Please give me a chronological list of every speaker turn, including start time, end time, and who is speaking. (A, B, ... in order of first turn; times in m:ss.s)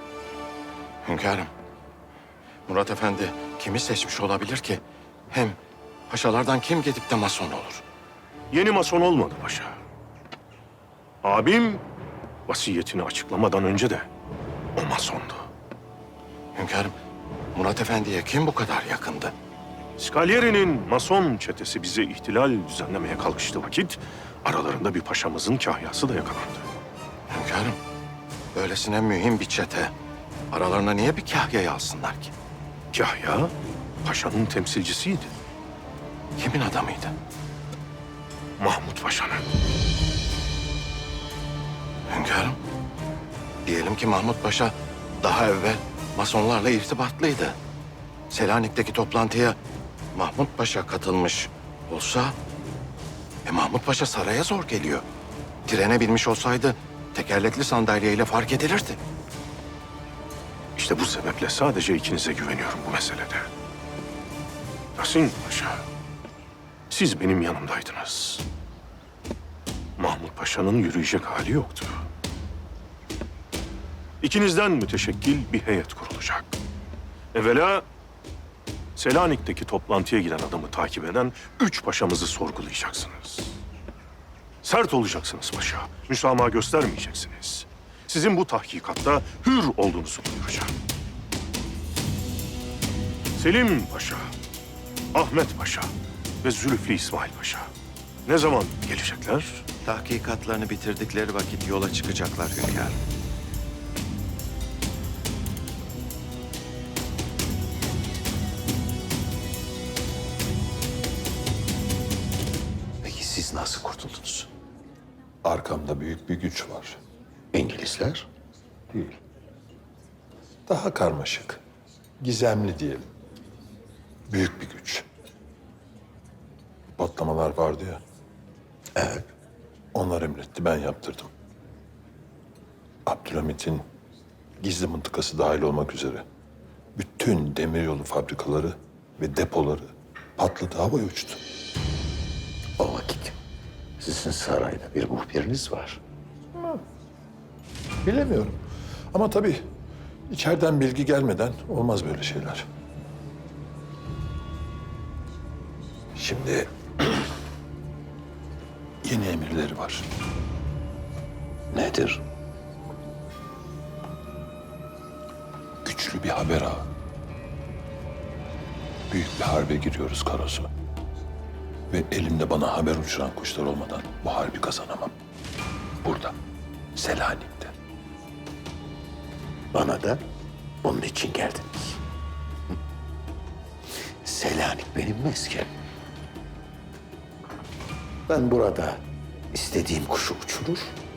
0:01.0-0:01.5 A
0:02.7-0:05.6 A
0:06.1-0:07.8 A
0:08.5-0:09.8 B
0:11.2-0:11.8 B
0:12.5-0:14.1 B
0:14.8-0:15.5 B
0:16.5-0:16.9 A
0:17.5-0:19.3 A
0:20.0-0:26.7 B
0:27.3-0:27.8 A
0:28.5-0:29.9 A
0:30.5-0:32.3 A
0:32.9-0:35.3 B
0:36.4-0:37.1 A
0:38.6-0:39.4 B
0:42.1-0:42.6 A
0:43.6-0:47.6 A
0:48.3-0:49.6 A
0:50.1-0:52.4 A
0:53.4-0:55.0 A
0:55.6-0:59.0 A
1:00.7-1:03.5 B
1:04.9-1:05.8 B
1:06.9-1:08.4 B
1:10.0-1:12.0 B
1:14.2-1:16.6 B
1:17.3-1:17.8 B
1:19.0-1:23.5 B
1:24.6-1:30.7 B
1:33.3-1:34.3 B
1:35.1-1:35.9 B
1:36.4-1:37.7 B
1:38.2-1:39.6 B
1:39.8-1:43.0 A
1:53.0-1:54.5 C
1:55.4-1:57.0 D
1:57.5-1:58.3 C
1:58.9-1:59.2 D
2:00.7-2:01.6 D
2:02.2-2:03.0 D
2:04.3-2:05.0 D
2:07.0-2:08.0 D
2:09.0-2:09.3 C
2:09.9-2:11.3 D
2:13.0-2:13.8 D
2:14.6-2:16.2 D
2:17.0-2:21.4 D
2:22.8-2:23.4 C
2:24.0-2:26.0 C
2:28.0-2:28.6 D
2:29.1-2:29.6 D
2:30.3-2:32.6 D
2:36.2-2:37.2 D
2:39.0-2:40.1 D
2:41.7-2:42.2 C
2:45.8-2:46.9 D
2:49.1-2:50.7 D
2:51.9-2:55.1 D
2:56.0-2:56.3 D
2:56.9-2:57.7 D
2:59.7-3:00.2 C
3:00.8-3:02.0 C
3:04.2-3:05.7 C
3:08.3-3:11.0 C